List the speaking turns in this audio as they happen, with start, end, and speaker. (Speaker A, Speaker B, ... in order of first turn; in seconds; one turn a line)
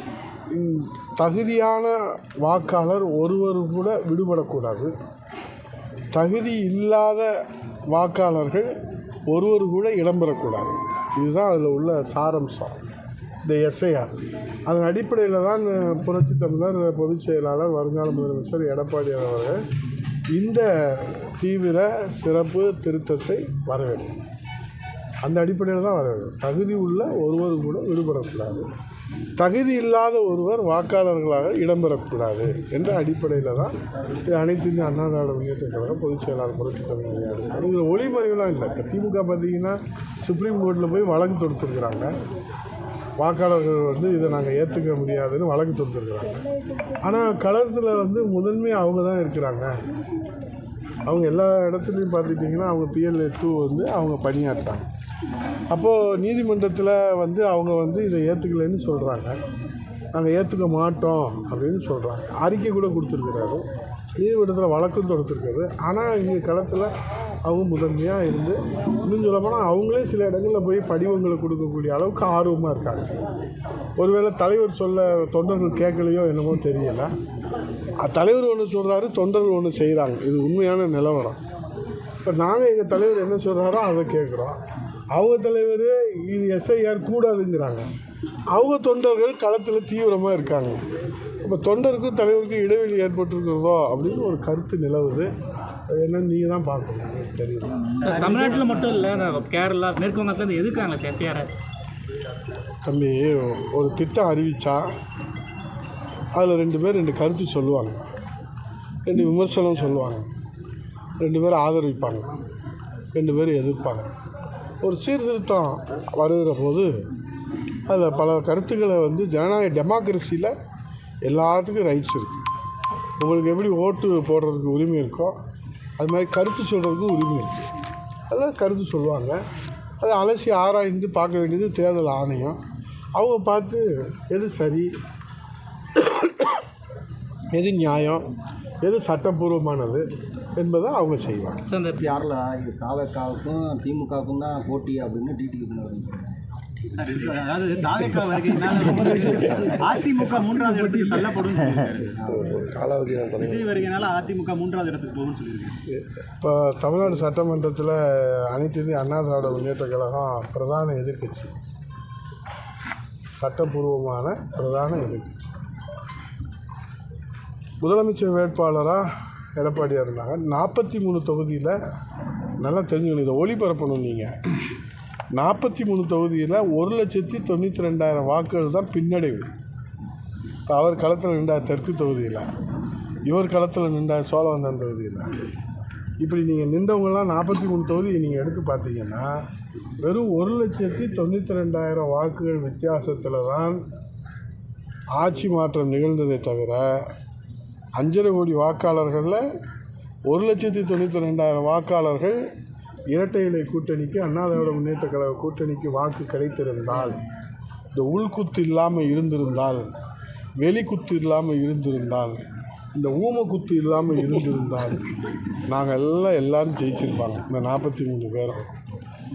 Speaker A: 0.5-4.9
Speaker A: 6.1-7.4
Speaker A: 7.9-8.7
Speaker A: 9.3-12.8
Speaker A: 13.4-14.1
Speaker A: 14.7-19.6
Speaker A: 20.3-24.1
Speaker A: 25.2-28.7
Speaker A: 29.4-42.1
Speaker A: 43.2-46.4
Speaker A: 47.0-49.7
Speaker A: 51.0-54.9
Speaker A: 55.7-59.4
Speaker A: 60.1-66.9
Speaker A: 67.4-73.2
Speaker A: 74.0-77.1
Speaker A: 78.0-81.4
Speaker A: 82.2-84.6
Speaker A: 85.1-87.9
Speaker A: 88.5-90.8
Speaker A: 91.4-95.3
Speaker A: 95.9-97.9
Speaker B: 98.0-98.9
Speaker C: 98.0-101.5
Speaker A: 102.8-104.9
Speaker A: 106.3-108.0
Speaker A: 109.0-110.3
Speaker A: 111.2-112.3
Speaker A: 113.1-114.1
Speaker A: 114.8-117.1
Speaker A: 117.9-120.5
Speaker A: 121.2-122.4
Speaker A: 123.2-125.3
Speaker A: 126.0-127.7
Speaker A: 128.3-129.4
Speaker A: 130.0-132.6
Speaker A: 133.2-134.9
Speaker A: 135.9-136.6
Speaker A: 137.5-138.3
Speaker A: 138.8-141.6
Speaker C: 141.7-142.0
Speaker D: 142.0-146.4
Speaker B: 146.9-152.4
Speaker A: 152.2-153.7
Speaker B: 153.3-155.8
Speaker A: 156.1-161.5
Speaker A: 163.3-165.5
Speaker A: 167.8-171.8
Speaker A: 172.6-174.3
Speaker A: 175.3-179.5
Speaker A: 180.7-182.5
Speaker A: 183.2-185.3
Speaker A: 186.2-189.4
Speaker A: 190.0-193.8
Speaker A: 195.1-197.1
Speaker A: 197.9-199.4
Speaker A: 200.3-202.4
Speaker A: 203.1-207.2
Speaker A: 207.9-209.8
Speaker A: 210.6-212.4
Speaker A: 212.9-215.0
Speaker A: 215.7-218.7